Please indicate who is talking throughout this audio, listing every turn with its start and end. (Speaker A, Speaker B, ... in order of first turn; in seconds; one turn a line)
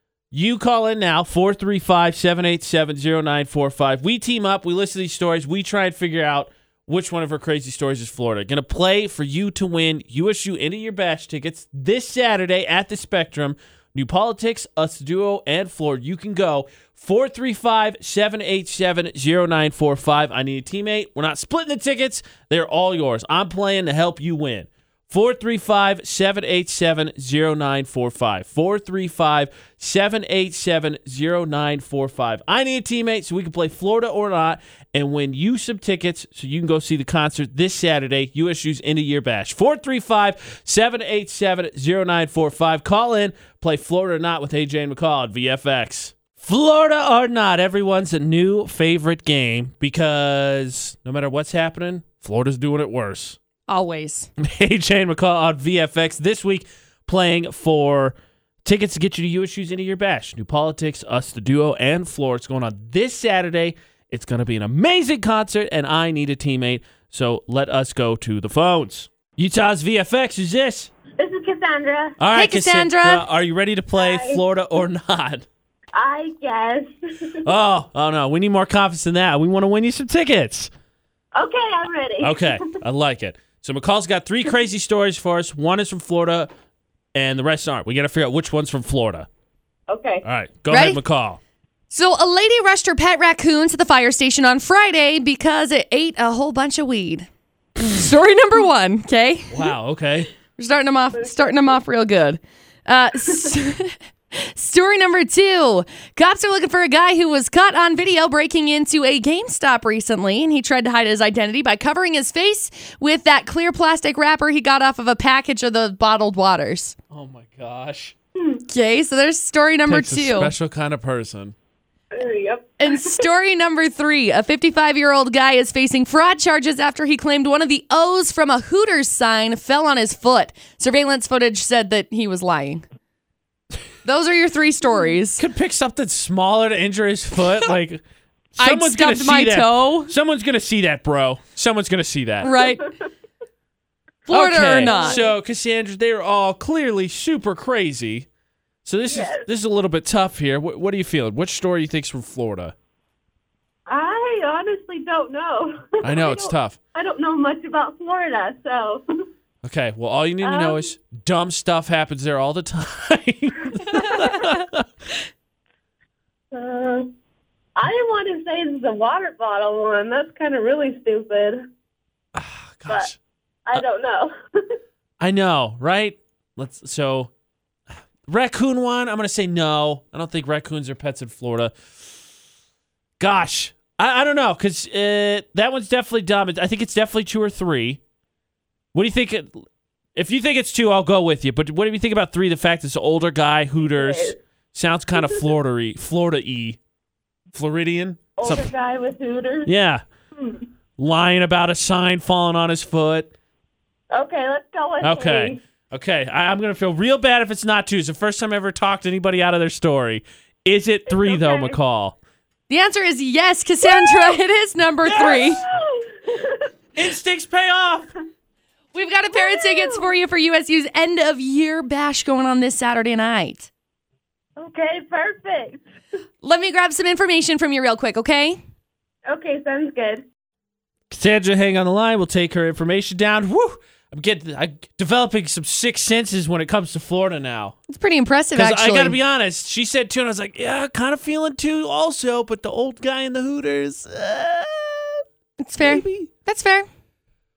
Speaker A: 0.3-53.4
Speaker B: 53.7-54.3
Speaker A: 54.4-70.9
Speaker C: 71.2-72.2
Speaker A: 72.2-75.5
Speaker B: 72.3-73.2
Speaker C: 74.0-74.4
Speaker C: 75.9-77.4
Speaker A: 77.4-80.7
Speaker C: 81.3-82.7
Speaker A: 82.2-86.5
Speaker A: 87.1-89.3
Speaker C: 89.9-90.2
Speaker A: 90.2-91.4
Speaker B: 90.7-91.0
Speaker B: 91.9-99.7
Speaker A: 99.5-100.3
Speaker B: 100.6-117.0
Speaker A: 117.1-118.1
Speaker B: 118.7-120.5
Speaker A: 119.8-121.5
Speaker C: 122.1-123.2
Speaker B: 122.8-132.8
Speaker B: 134.0-135.4
Speaker A: 135.4-138.0
Speaker A: 138.5-142.5
Speaker B: 138.6-140.1
Speaker B: 142.4-142.9
Speaker C: 142.5-142.9
Speaker B: 144.3-145.2
Speaker A: 144.3-148.2
Speaker C: 144.6-145.3
Speaker A: 148.8-152.7
Speaker C: 149.1-149.5
Speaker C: 153.9-159.0
Speaker A: 156.0-156.8
Speaker A: 159.6-164.8
Speaker C: 160.4-160.8
Speaker C: 164.0-164.3
Speaker C: 166.5-167.1
Speaker C: 167.8-171.6
Speaker A: 172.3-173.2
Speaker C: 173.7-174.3
Speaker A: 175.2-177.3
Speaker A: 178.3-181.8
Speaker A: 183.2-188.0
Speaker A: 188.9-196.8
Speaker C: 193.8-194.4
Speaker C: 195.1-195.4
Speaker A: 197.5-198.7
Speaker C: 198.4-199.7
Speaker A: 199.6-200.0
Speaker C: 200.3-200.7
Speaker A: 201.0-203.3
Speaker C: 204.1-205.6
Speaker A: 205.0-212.2
Speaker C: 211.1-211.8
Speaker B: 212.7-215.6
Speaker C: 213.8-214.4
Speaker A: 215.0-215.6
Speaker C: 215.1-216.7
Speaker A: 216.9-218.1
Speaker B: 218.9-223.7
Speaker C: 219.3-220.0
Speaker C: 224.6-225.8
Speaker B: 226.4-228.6
Speaker C: 229.3-230.2
Speaker A: 231.1-237.8
Speaker B: 237.9-239.2
Speaker A: 238.5-245.2
Speaker B: 245.6-246.9
Speaker A: 245.8-246.3